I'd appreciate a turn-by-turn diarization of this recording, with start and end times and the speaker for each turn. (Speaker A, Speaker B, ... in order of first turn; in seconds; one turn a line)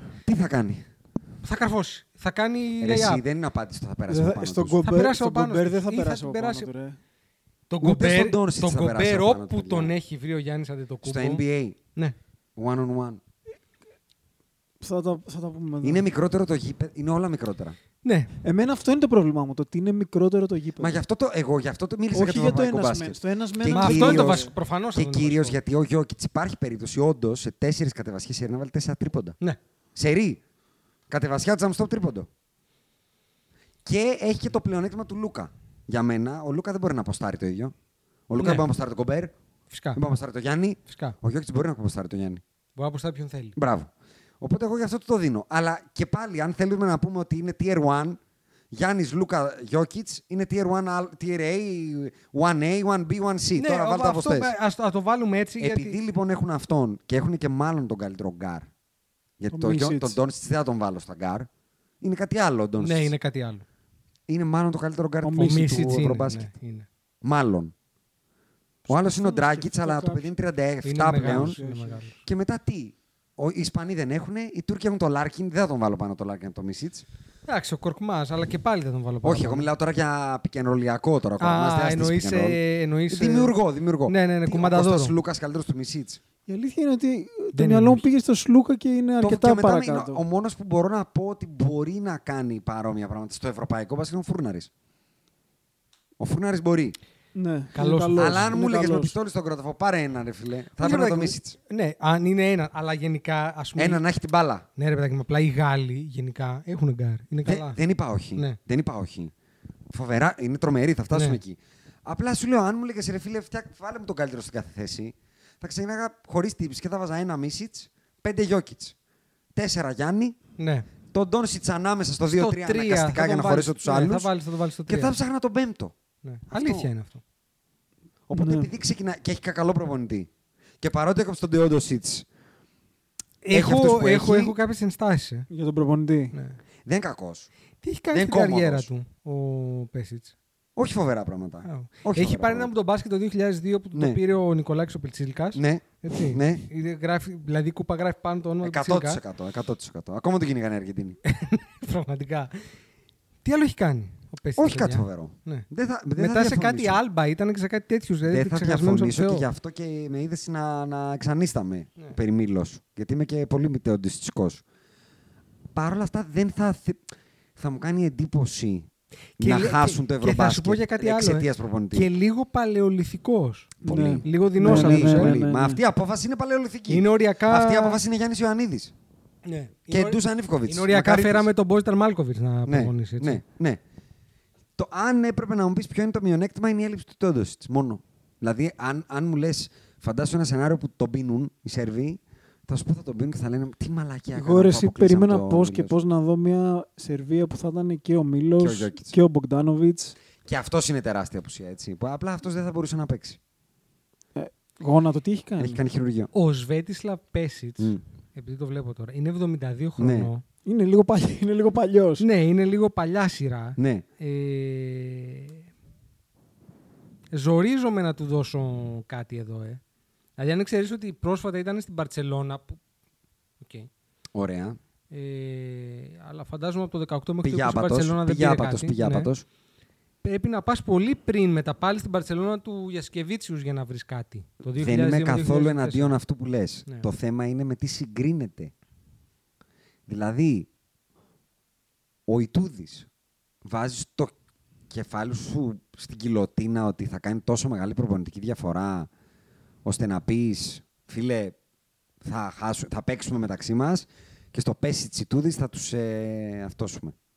Speaker A: 0.3-0.9
Speaker B: 1.4-3.2
Speaker A: 2.8-4.8
Speaker C: 4.1-7.0
Speaker B: 4.8-6.7
Speaker B: 7.7-11.4
Speaker A: 7.8-9.9
Speaker A: 11.0-11.8
Speaker A: 12.6-13.2
Speaker C: 14.8-16.1
Speaker A: 15.8-17.8
Speaker B: 18.0-18.3
Speaker C: 18.4-21.0
Speaker A: 20.8-29.4
Speaker C: 22.1-24.5
Speaker B: 23.7-25.6
Speaker A: 30.0-30.4
Speaker A: 31.1-32.3
Speaker A: 33.9-37.8
Speaker A: 38.3-39.4
Speaker B: 38.4-38.7
Speaker B: 39.7-40.0
Speaker A: 39.9-42.4
Speaker B: 40.9-41.2
Speaker B: 42.8-43.6
Speaker A: 43.5-48.2
Speaker A: 48.7-54.5
Speaker B: 53.6-56.0
Speaker A: 55.6-58.7
Speaker A: 59.4-61.5
Speaker C: 59.5-60.2
Speaker A: 62.0-63.1
Speaker B: 62.8-63.6
Speaker A: 64.3-66.5
Speaker C: 65.2-66.0
Speaker B: 65.3-66.9
Speaker A: 67.2-67.7
Speaker C: 68.9-70.3
Speaker A: 68.9-71.6
Speaker B: 70.8-72.2
Speaker C: 71.0-72.0
Speaker A: 72.2-77.0
Speaker B: 77.5-79.7
Speaker A: 79.2-86.2
Speaker B: 81.4-83.5
Speaker B: 84.1-85.1
Speaker C: 86.5-90.2
Speaker B: 87.5-88.0
Speaker A: 89.2-94.7
Speaker A: 96.2-97.0
Speaker C: 97.3-99.1
Speaker B: 97.8-98.5
Speaker A: 98.1-101.6
Speaker B: 100.8-104.0
Speaker A: 103.8-104.7
Speaker B: 104.8-107.8
Speaker A: 107.5-109.3
Speaker A: 109.9-119.0
Speaker B: 111.1-111.4
Speaker A: 119.5-120.4
Speaker B: 120.6-120.9
Speaker A: 121.1-124.3
Speaker B: 122.3-125.2
Speaker A: 124.9-125.9
Speaker B: 126.2-127.2
Speaker A: 126.5-126.9
Speaker A: 128.3-130.3
Speaker C: 128.3-128.7
Speaker A: 130.8-132.3
Speaker B: 133.4-135.5
Speaker A: 133.5-134.6
Speaker C: 135.5-136.3
Speaker B: 136.3-136.6
Speaker A: 136.9-137.5
Speaker B: 137.8-140.3
Speaker A: 138.1-138.9
Speaker A: 140.8-142.7
Speaker B: 141.7-149.2
Speaker A: 143.9-144.2
Speaker A: 145.5-146.7
Speaker A: 148.6-151.2
Speaker B: 151.3-152.7
Speaker B: 153.4-159.5
Speaker A: 154.6-157.0
Speaker A: 158.3-164.6
Speaker A: 165.7-167.0
Speaker A: 167.6-168.9
Speaker A: 169.4-172.1
Speaker B: 169.4-173.7
Speaker C: 173.8-175.8
Speaker A: 173.8-178.9
Speaker B: 174.2-175.4
Speaker B: 176.9-178.0
Speaker B: 179.5-183.4
Speaker A: 179.9-181.5
Speaker A: 182.7-183.8
Speaker A: 184.8-196.0
Speaker C: 194.3-200.2
Speaker A: 198.6-199.1
Speaker A: 200.4-203.4
Speaker C: 204.4-205.8
Speaker A: 205.6-206.3
Speaker B: 206.3-210.4
Speaker A: 210.0-210.3
Speaker C: 210.7-212.2
Speaker B: 212.2-215.6
Speaker A: 213.8-214.1
Speaker B: 217.3-219.8
Speaker B: 220.4-222.8
Speaker B: 223.6-223.9
Speaker A: 224.3-224.8
Speaker B: 225.1-229.3
Speaker A: 227.4-229.4
Speaker B: 230.2-236.2
Speaker A: 234.8-238.7
Speaker A: 240.1-240.7
Speaker A: 242.3-243.1
Speaker A: 243.6-244.3
Speaker A: 244.9-249.1
Speaker A: 249.8-251.6
Speaker A: 252.2-257.2